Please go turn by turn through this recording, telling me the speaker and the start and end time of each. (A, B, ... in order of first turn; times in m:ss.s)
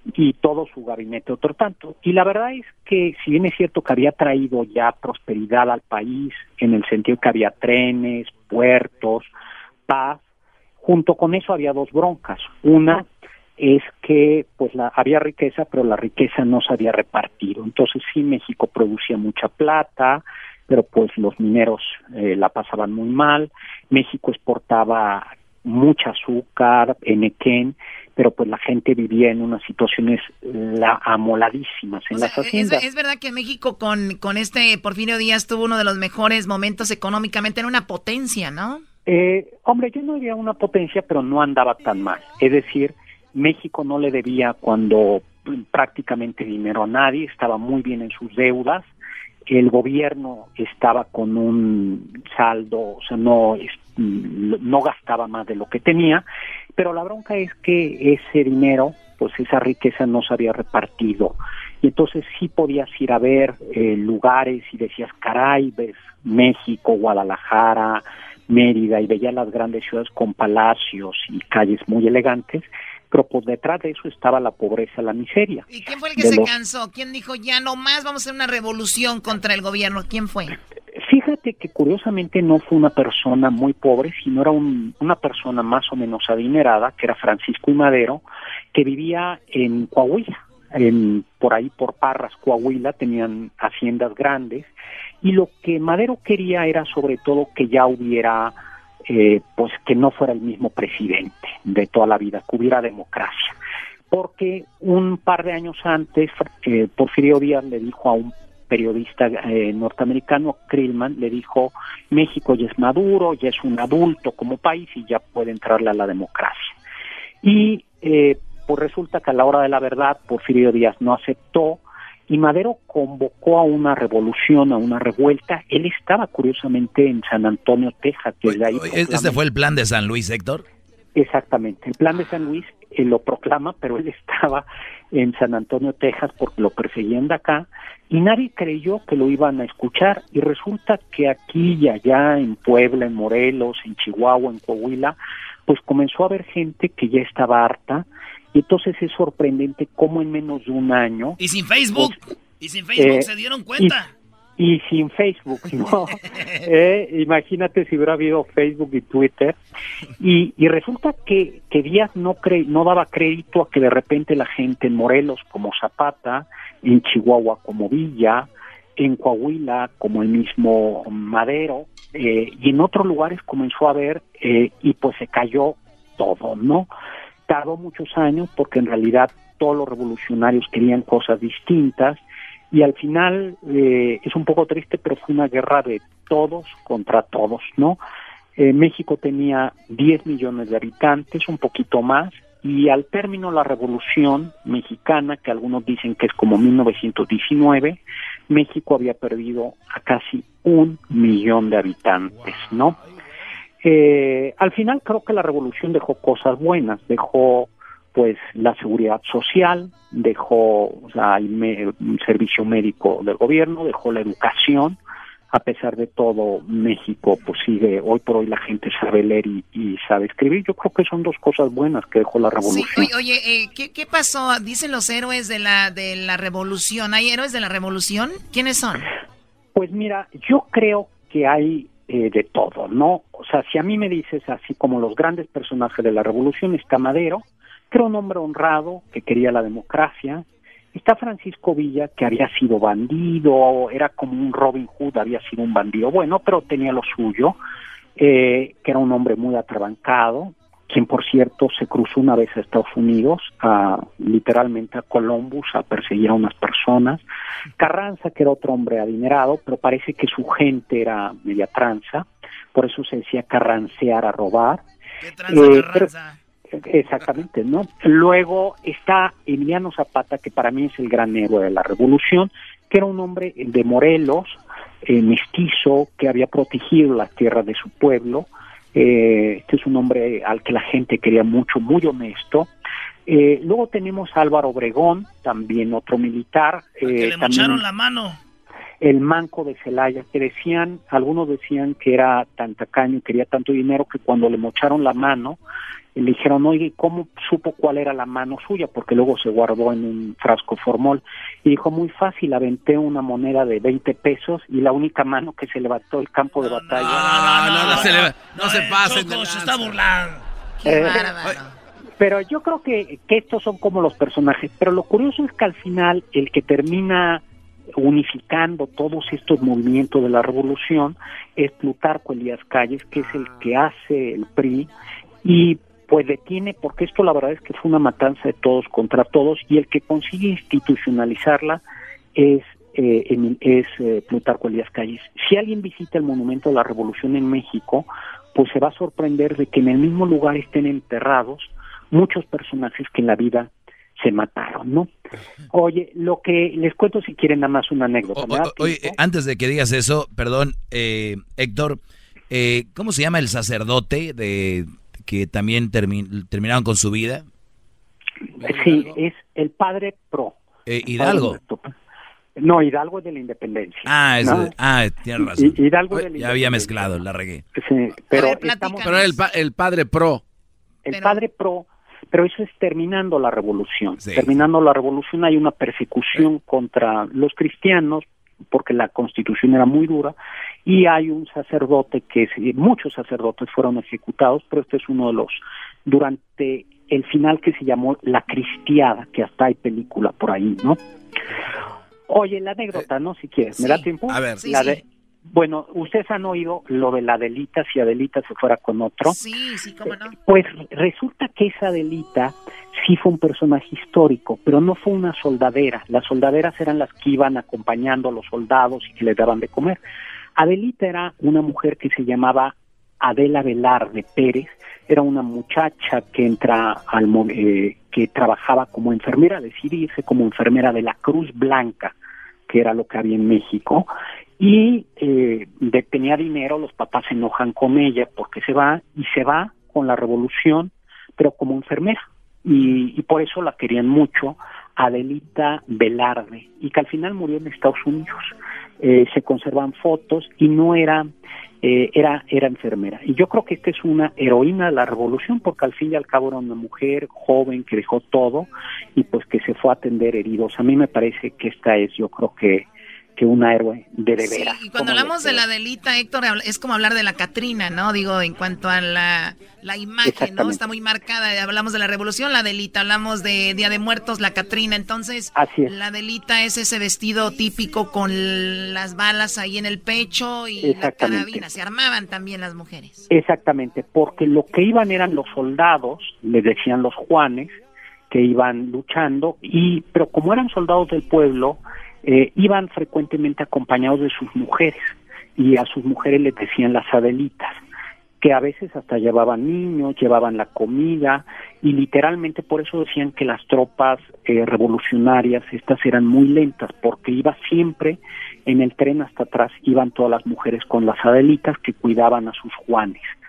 0:00.2-0:09.3 A
0:09.9-0:10.2 A
0:10.8-0:13.0 A
0:13.6-0:32.8 A
0:32.1-0:38.8 B
0:39.1-0:48.9 A
0:49.5-0:56.2 A
0:56.8-1:16.5 A
1:15.7-1:20.6 B
1:21.0-1:28.2 A
1:28.7-1:34.7 A
1:35.2-1:38.6 A
1:39.1-1:43.6 A
1:44.1-1:56.8 A
1:57.4-2:09.4 A
2:08.4-2:10.6 C
2:11.2-2:25.2 A
2:25.7-2:31.4 A
2:31.4-2:34.1 D
2:33.0-2:34.0 A
2:34.6-2:39.6 A
2:40.2-2:56.9 A
2:57.5-3:02.2 A
3:02.7-3:08.0 A
3:08.6-3:23.0 A
3:23.8-3:35.0 A
3:35.5-3:43.1 A
3:42.6-3:49.0 B
3:49.8-4:07.6 A
4:08.2-4:17.2 A
4:17.8-4:24.8 A
4:25.2-4:26.4 D
4:25.5-4:26.1 A
4:26.8-4:42.7 A
4:43.3-4:47.9 A
4:47.0-4:48.4 D
4:49.0-4:55.6 A
4:56.2-5:08.1 A
5:06.5-5:10.4 D
5:07.0-5:10.0 E
5:10.8-5:11.8 B
5:10.8-5:11.4 A
5:12.2-5:17.4 A
5:18.0-5:24.9 A
5:25.4-5:31.8 A
5:32.4-5:45.1 A
5:45.7-5:49.2 A
5:48.3-5:57.5 C
5:58.6-5:59.2 E
5:58.6-6:00.6 A
6:00.9-6:01.6 C
6:01.2-6:01.9 A
6:02.6-6:04.7 A
6:04.1-6:07.6 C
6:05.4-6:07.2 A
6:07.8-6:09.2 A
6:08.3-6:09.3 B
6:09.0-6:10.4 E
6:11.1-6:20.4 A
6:11.1-6:11.4 B
6:14.2-6:14.5 C
6:20.9-6:31.0 A
6:32.3-6:39.4 A
6:34.3-6:34.6 E
6:34.6-6:35.0 B
6:39.3-6:40.3 B
6:40.1-6:50.0 A
6:50.6-7:02.1 A
7:02.7-7:21.3 A
7:21.8-7:35.6 A
7:34.4-7:53.3 B
7:40.2-7:40.8 A
7:45.5-7:45.9 A
7:50.8-7:51.7 A
7:53.3-7:57.8 A
7:58.3-8:07.8 A
8:08.4-8:23.3 A